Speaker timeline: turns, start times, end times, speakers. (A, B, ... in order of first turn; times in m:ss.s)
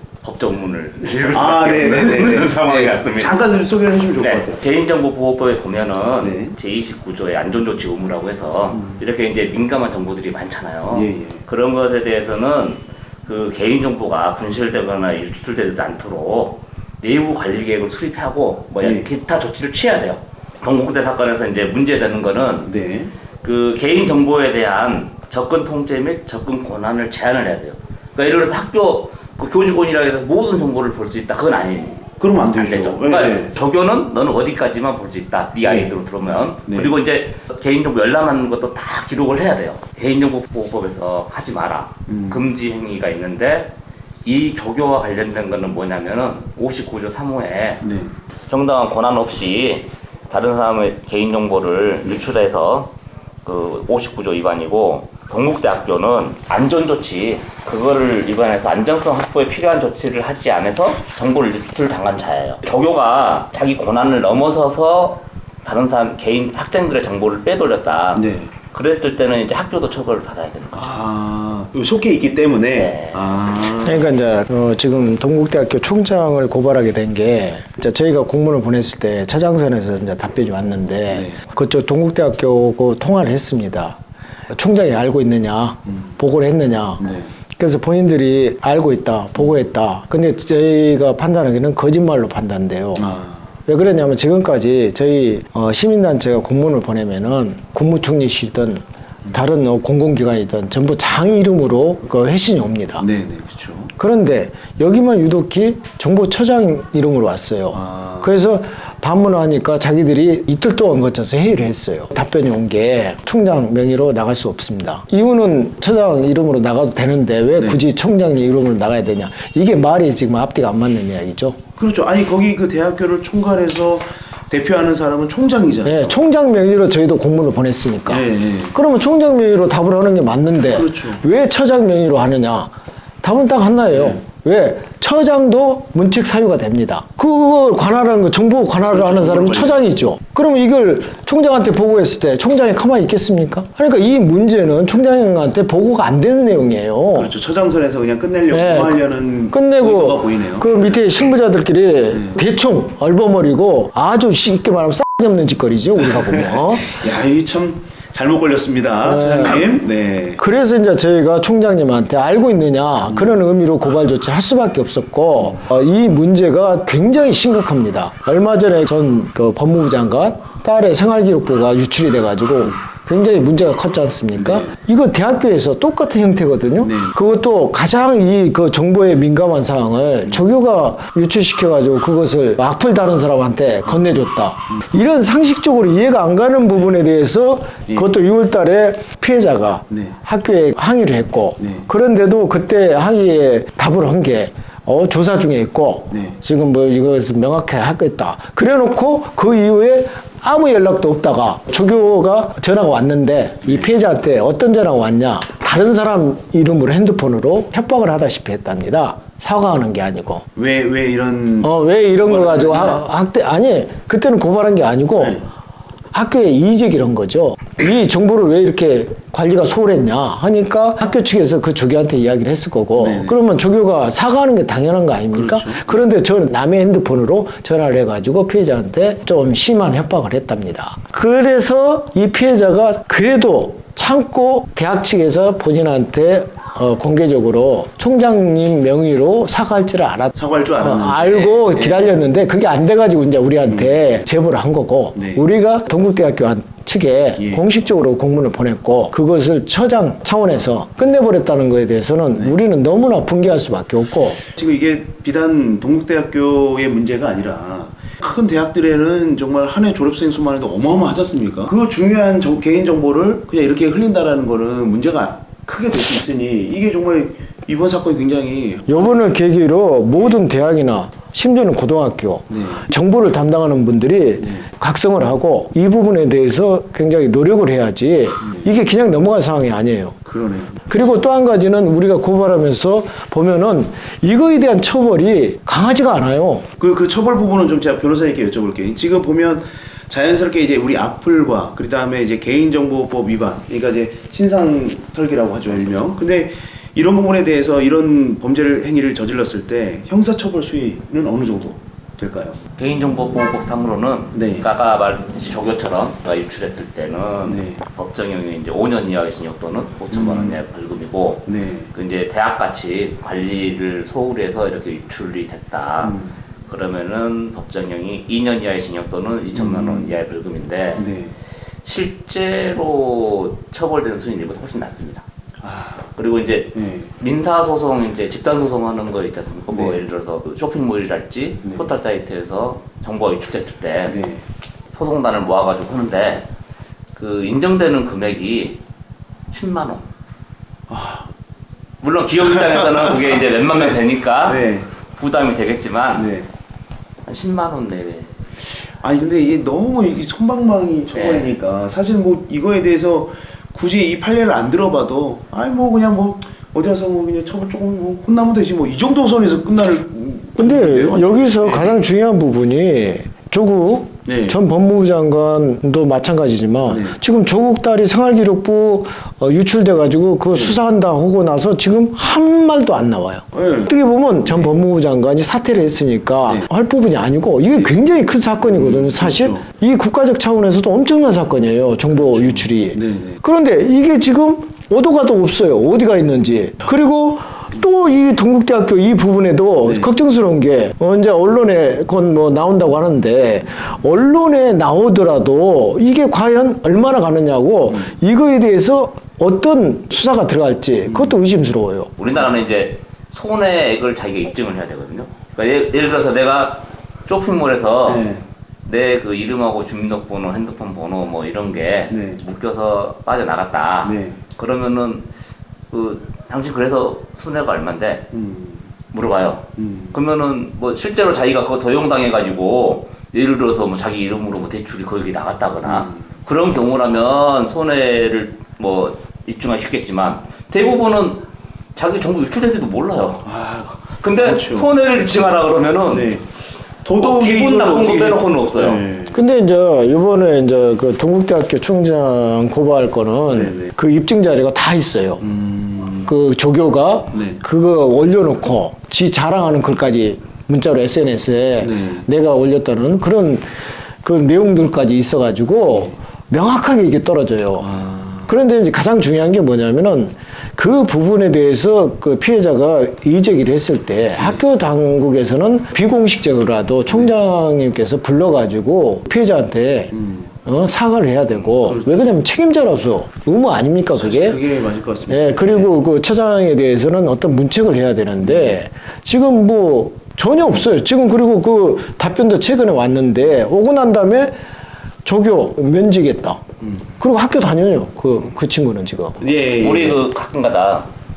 0:00.2-0:03.4 A
0:01.3-0:04.6 B
0:04.2-0:22.7 A
0:06.2-0:06.6 B
0:08.7-0:09.0 B
0:10.9-0:11.4 B
0:18.8-0:19.1 B
0:22.7-0:23.1 B
0:23.4-0:43.7 A
0:32.2-0:33.5 B
0:35.6-0:35.9 B
0:36.7-0:36.9 B
0:42.1-0:42.5 B
0:44.2-0:47.9 A
0:47.8-0:48.1 B
0:48.5-0:52.9 A
0:53.4-1:11.0 A
1:08.2-1:08.5 B
1:10.8-1:14.1 B
1:12.8-1:13.2 A
1:13.8-1:24.0 C
1:21.1-1:21.4 B
1:24.5-1:33.1 C
1:27.0-1:27.3 B
1:33.0-1:33.5 B
1:33.7-1:43.1 C
1:43.0-1:43.9 B
1:44.0-2:01.6 C
1:47.7-1:48.3 B
1:57.6-1:57.8 B
2:01.8-2:06.2 B
2:05.8-2:12.7 C
2:08.1-2:08.8 B
2:10.7-2:11.2 B
2:13.2-2:27.3 C
2:13.9-2:14.2 B
2:18.9-2:19.9 B
2:27.2-2:31.0 B
2:28.5-2:37.0 C
2:32.1-2:32.4 B
2:36.2-2:40.4 B
2:39.0-2:39.7 C
2:40.4-3:30.5 C
2:43.1-2:43.4 B
2:54.4-2:54.7 B
2:56.8-2:57.1 B
3:09.9-3:10.2 B
3:11.6-3:11.9 B
3:16.1-3:16.4 B
3:30.6-3:31.7 B
3:31.6-3:35.4 C
3:32.2-3:33.0 B
3:35.2-3:35.5 B
3:36.1-4:14.4 C
3:43.0-3:43.4 B
3:45.3-3:46.0 B
4:00.4-4:02.1 B
4:03.7-4:04.1 B
4:05.2-4:05.4 B
4:14.5-4:29.1 B
4:28.9-4:40.2 C
4:32.5-4:32.9 B
4:38.4-4:38.7 B
4:40.3-4:40.9 B
4:40.9-4:46.7 C
4:46.8-5:02.6 B
5:02.8-5:16.2 A
5:04.3-5:04.7 B
5:07.5-5:07.8 B
5:10.1-5:10.6 B
5:11.5-5:11.9 B
5:16.0-5:16.4 B
5:16.7-5:21.1 A
5:19.5-5:20.1 B
5:21.0-5:21.3 B
5:21.8-5:25.2 A
5:25.6-5:26.1 B
5:26.2-5:34.2 A
5:26.7-5:27.1 B
5:29.7-5:30.0 B
5:34.1-5:34.4 B
5:34.9-5:36.5 A
5:37.2-5:38.8 A
5:39.5-5:40.1 A
5:40.9-5:41.3 B
5:42.0-5:46.3 A
5:42.5-5:43.9 B
5:44.5-5:44.9 B
5:46.2-5:46.5 B
5:47.3-5:48.4 A
5:49.0-6:02.1 B
5:51.1-5:51.5 A
6:00.6-6:42.1 C
6:04.3-6:04.6 B
6:06.9-6:07.2 B
6:13.5-6:13.9 B
6:14.4-6:14.8 B
6:18.6-6:19.7 B
6:22.2-6:23.4 B
6:29.8-6:30.1 B
6:37.9-6:38.1 B
6:41.1-6:41.4 B
6:42.2-6:48.3 A
6:48.1-6:48.4 B
6:48.8-6:55.3 A
6:52.1-6:52.4 B
6:54.0-6:54.4 B
6:55.9-6:58.3 A
6:58.3-6:58.9 B
6:59.1-7:13.5 A
6:59.8-7:00.2 B
7:05.8-7:06.2 B
7:13.4-7:15.0 B
7:14.0-7:16.3 A
7:16.1-7:16.4 B
7:17.0-7:19.4 B
7:17.2-7:19.0 A
7:19.3-7:25.5 C
7:23.5-7:23.9 B
7:25.4-7:26.3 B
7:26.3-7:50.1 C
7:27.3-7:27.6 B
7:31.8-7:32.3 B
7:37.8-7:38.5 B
7:50.1-7:50.5 B
7:50.7-7:54.6 C
7:51.6-7:52.3 B
7:54.2-7:56.0 B
7:55.3-8:04.6 C
7:58.4-7:58.8 B
8:05.2-8:06.6 C
8:06.8-8:07.1 B
8:07.2-8:09.4 C
8:09.4-8:10.3 B
8:09.7-8:11.1 A